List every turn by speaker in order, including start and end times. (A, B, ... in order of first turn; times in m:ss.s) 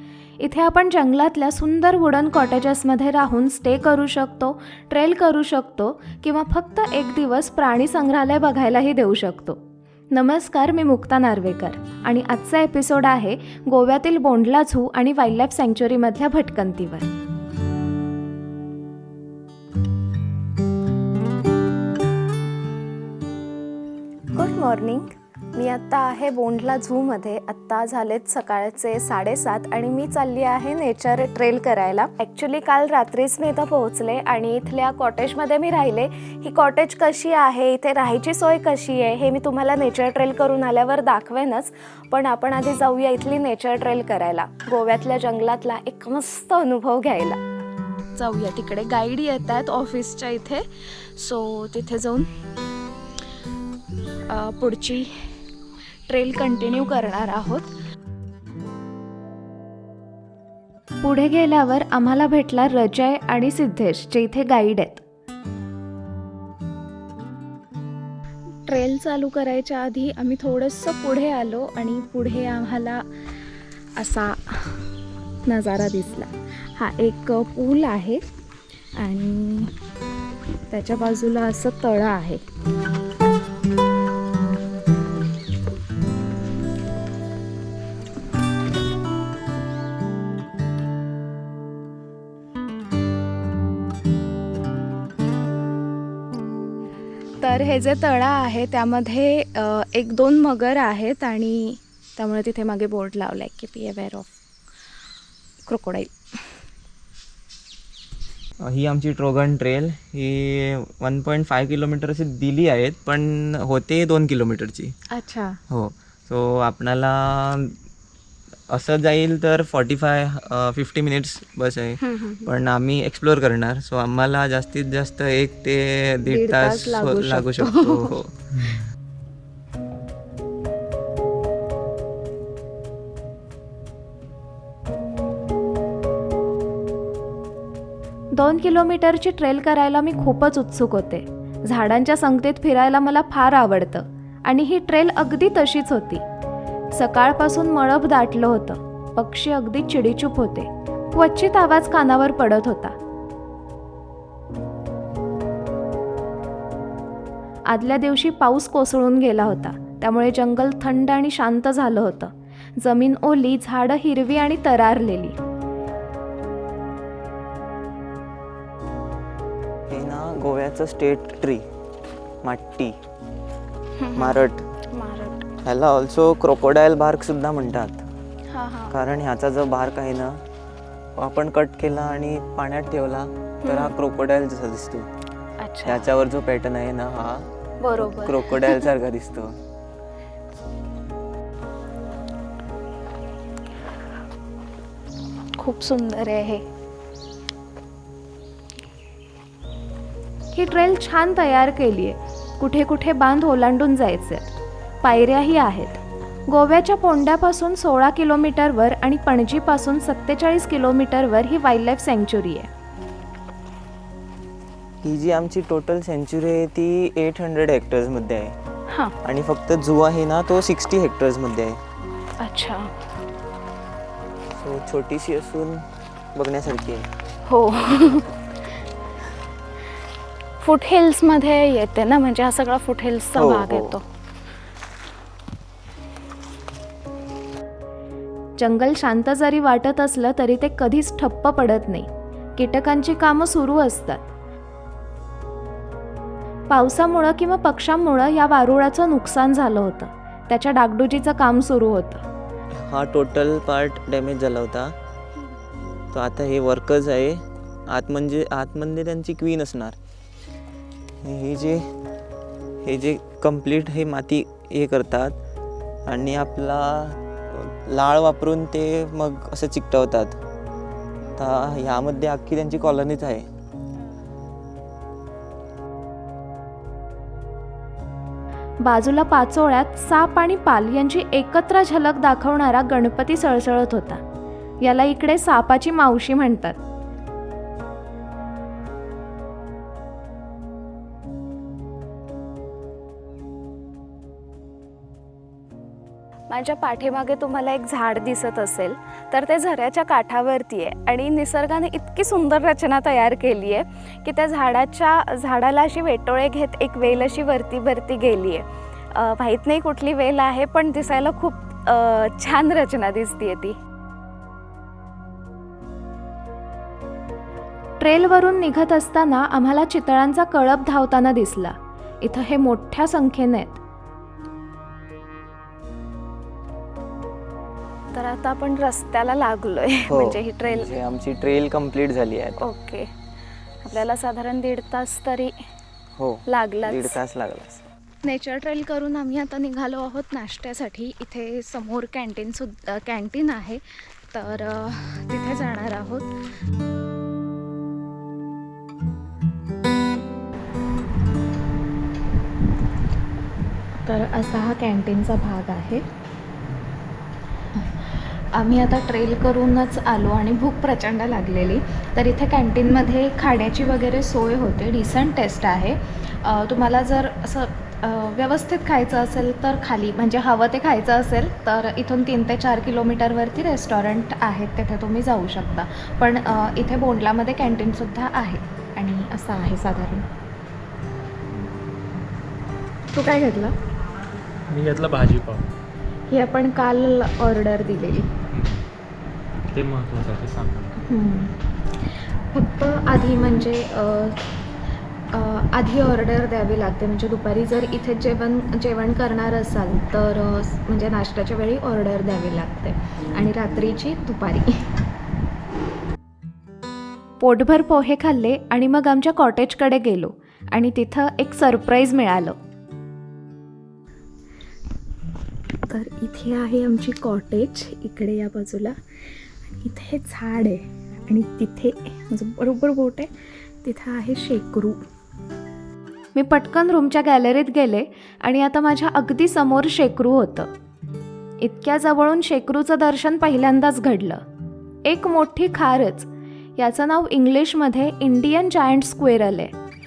0:00.4-0:09.6 A
0:10.1-0:17.1 A
0:24.3-0:47.4 A
0:48.2-0:52.3 A
0:54.3-0:55.1 A
0:56.1-0:57.7 A
1:01.0-1:05.0 A
1:08.7-1:13.0 A
1:14.0-1:14.8 A
1:15.5-1:18.2 A
1:19.0-1:19.7 A
1:20.7-1:22.4 A
1:37.4-1:44.3 A
1:45.7-1:46.2 A
1:48.6-1:54.9 B
1:55.1-1:55.6 A
1:55.7-1:57.8 B
1:58.7-2:08.8 B
2:02.0-2:02.5 A
2:06.3-2:08.1 A
2:18.3-2:26.2 A
2:26.9-2:33.0 A
2:37.7-2:45.4 A
2:49.9-2:51.6 B
2:52.4-2:52.9 B
2:54.0-2:55.5 A
2:54.1-2:54.6 B
2:55.6-2:58.0 B
2:58.5-2:58.9 A
2:58.9-3:00.4 B
3:01.2-3:05.1 B
3:03.6-3:03.9 A
3:05.6-3:06.0 A
3:05.8-3:09.6 B
3:07.8-3:08.9 A
3:15.6-3:16.6 A
3:20.5-3:24.5 A
3:25.0-3:32.7 A
3:35.0-3:38.5 B
3:38.9-3:39.1 A
3:39.2-3:41.8 B
3:42.4-3:42.9 A
3:44.5-3:47.1 B
3:47.4-3:48.3 A
3:50.6-3:54.0 A
3:53.3-3:54.0 B
3:58.6-4:04.3 A
4:06.7-4:12.2 A
4:12.9-4:14.9 B
4:16.1-4:20.0 B
4:21.2-4:21.8 B
4:22.8-4:25.4 B
4:26.1-4:30.4 B
4:31.4-4:33.4 B
4:38.8-4:44.2 A
4:44.8-4:46.8 A
4:56.5-5:13.7 A
5:18.0-5:23.8 A
5:28.1-5:30.9 A
5:30.1-5:32.6 B
5:32.6-5:33.1 A
5:33.8-5:35.5 A
5:36.2-5:37.8 B
5:36.5-5:37.1 A
5:38.2-5:46.3 A
5:54.0-5:56.0 A
5:57.8-6:20.2 A
6:23.1-6:23.7 A
6:24.7-6:25.6 C
6:26.3-6:28.3 A
6:28.5-6:28.8 C
6:29.7-6:30.9 C
6:31.0-6:31.5 A
6:32.5-6:34.4 A
6:35.3-6:44.8 A
6:47.4-6:52.6 A
6:55.9-6:58.9 A
6:59.7-7:03.3 A
7:03.8-7:05.0 A
7:06.3-7:10.7 A
7:11.6-7:14.4 A
7:15.0-7:19.7 A